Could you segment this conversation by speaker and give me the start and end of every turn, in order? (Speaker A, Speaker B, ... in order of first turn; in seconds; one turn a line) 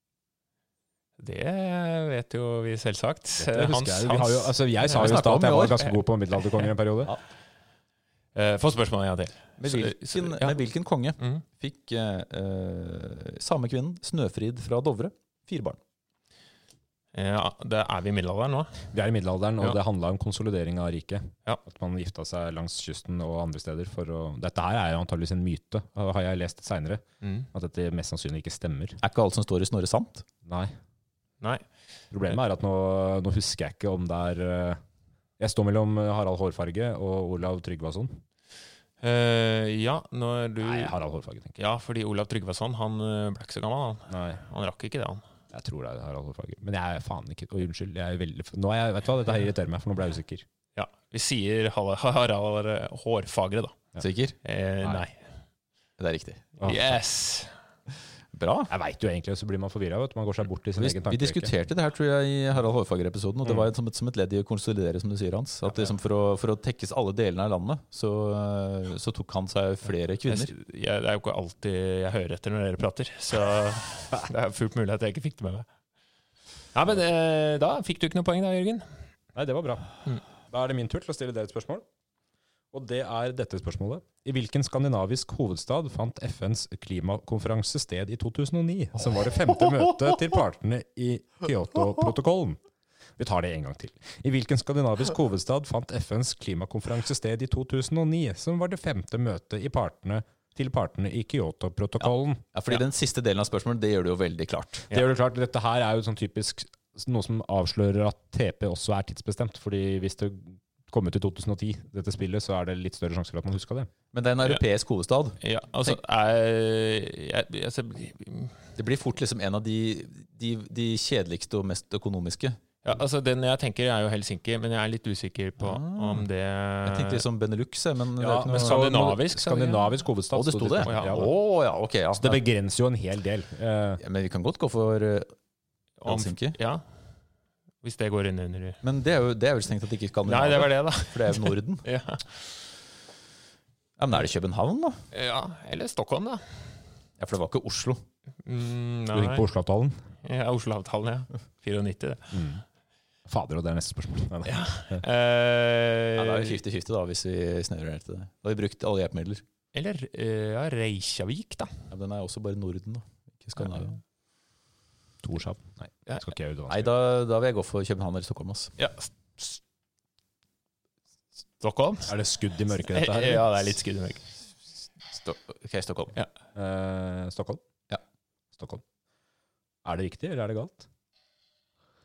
Speaker A: 1.2-5.3
Speaker B: 3.4-7.1
Speaker C: 4.8-5.9
Speaker A: 8.3-10.6
Speaker C: 9.6-15.8
Speaker A: 17.1-18.9
Speaker B: 18.9-29.0
Speaker A: 27.2-27.5
Speaker C: 29.0-30.3
Speaker B: 30.4-30.7
Speaker B: 32.1-34.8
Speaker B: 35.4-38.2
Speaker A: 39.0-40.9
Speaker B: 40.6-41.6
Speaker A: 41.6-45.2
Speaker B: 44.1-44.4
Speaker B: 45.5-50.5
Speaker A: 50.8-53.8
Speaker C: 54.0-54.4
Speaker A: 54.4-55.2
Speaker C: 56.0-56.6
Speaker B: 56.6-57.0
Speaker A: 56.6-57.5
Speaker C: 58.3-58.7
Speaker B: 58.7-61.5
Speaker C: 60.8-70.5
Speaker A: 70.3-75.7
Speaker A: 76.7-78.8
Speaker B: 79.3-80.0
Speaker B: 80.5-81.8
Speaker B: 82.7-92.6
Speaker B: 93.2-102.4
Speaker C: 102.0-104.9
Speaker B: 104.9-113.9
Speaker C: 114.1-116.0
Speaker A: 115.4-118.6
Speaker C: 118.8-122.6
Speaker A: 122.8-127.2
Speaker C: 125.6-126.3
Speaker C: 126.8-129.0
Speaker B: 128.2-131.3
Speaker A: 128.5-129.9
Speaker C: 130.3-132.4
Speaker A: 130.8-131.3
Speaker B: 132.2-134.0
Speaker C: 134.0-135.3
Speaker A: 136.0-136.8
Speaker C: 136.1-136.6
Speaker A: 137.8-138.8
Speaker C: 138.8-141.9
Speaker A: 140.3-142.4
Speaker C: 144.0-145.0
Speaker A: 145.1-146.6
Speaker C: 147.2-148.0
Speaker A: 148.4-149.5
Speaker B: 149.1-150.0
Speaker A: 150.2-152.4
Speaker B: 152.3-152.6
Speaker B: 153.3-155.0
Speaker A: 154.4-156.6
Speaker C: 156.2-159.4
Speaker A: 159.7-161.8
Speaker C: 161.9-164.0
Speaker B: 165.2-166.9
Speaker C: 166.7-168.8
Speaker A: 168.8-169.6
Speaker A: 171.6-172.1
Speaker B: 172.1-173.6
Speaker A: 172.9-174.2
Speaker C: 175.1-176.2
Speaker B: 176.6-177.6
Speaker B: 178.6-178.8
Speaker B: 179.8-180.9